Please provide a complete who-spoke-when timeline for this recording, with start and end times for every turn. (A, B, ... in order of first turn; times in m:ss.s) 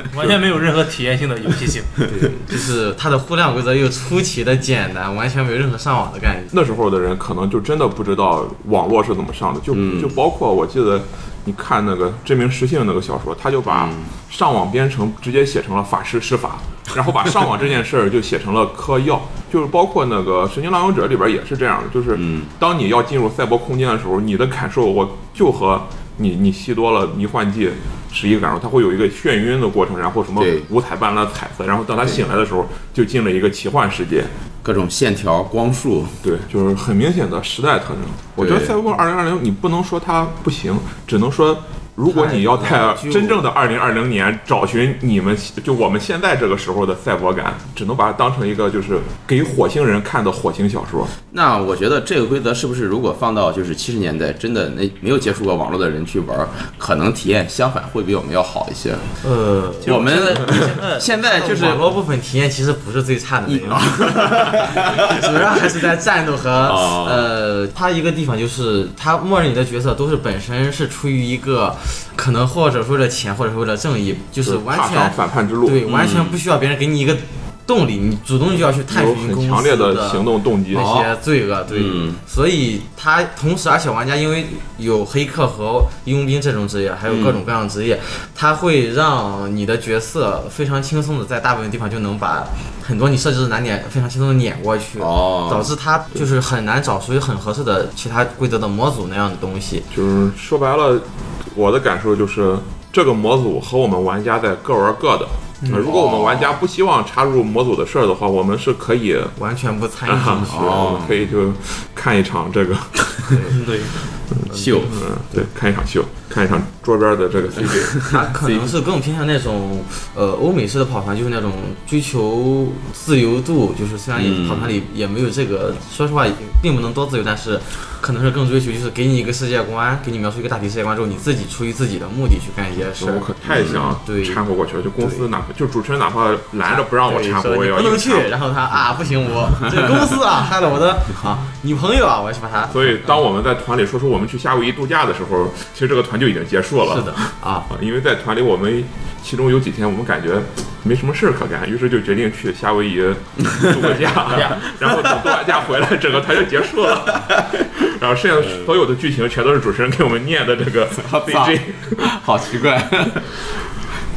0:00.1-0:02.0 A
0:02.1-0:06.5 B
0:06.5-0:34.3 C
0:09.7-0:10.2 D
0:13.7-0:14.1 D
0:22.1-0:22.5 D
0:30.4-0:30.7 D
0:34.6-0:36.2 D
0:36.2-0:51.1 C
0:38.4-0:38.8 D
0:42.1-0:43.4 B
0:51.3-0:59.1 D
0:59.2-1:39.9 B
0:59.8-1:01.6 A
0:59.8-1:01.9 D
1:03.5-1:05.7 D
1:06.6-1:07.3 D
1:14.4-1:15.8 C
1:15.9-1:16.4 D
1:18.9-1:20.9 C
1:20.7-1:21.1 D
1:21.7-1:22.2 D
1:27.1-1:27.4 D
1:35.0-1:35.7 D
1:39.9-1:49.4 C
1:45.6-1:45.9 A
1:45.7-1:46.6 D
1:49.4-1:51.0 B
1:50.1-1:53.5 C
1:50.5-1:51.2 D
1:53.3-1:53.6 B
1:53.5-1:54.0 A
1:54.4-1:58.0 C
1:54.5-1:54.8 B
1:54.5-1:55.0 D
1:57.6-1:58.7 D
1:58.0-2:14.4 B
2:04.2-2:04.8 D
2:13.0-2:18.3 C
2:13.5-2:13.8 D
2:15.0-2:15.2 B
2:16.6-2:23.2 B
2:22.7-2:27.2 C
2:26.8-2:27.6 B
2:27.7-2:42.1 C
2:33.5-2:35.3 D
2:37.1-2:37.5 D
2:38.4-2:38.7 D
2:41.0-2:43.4 D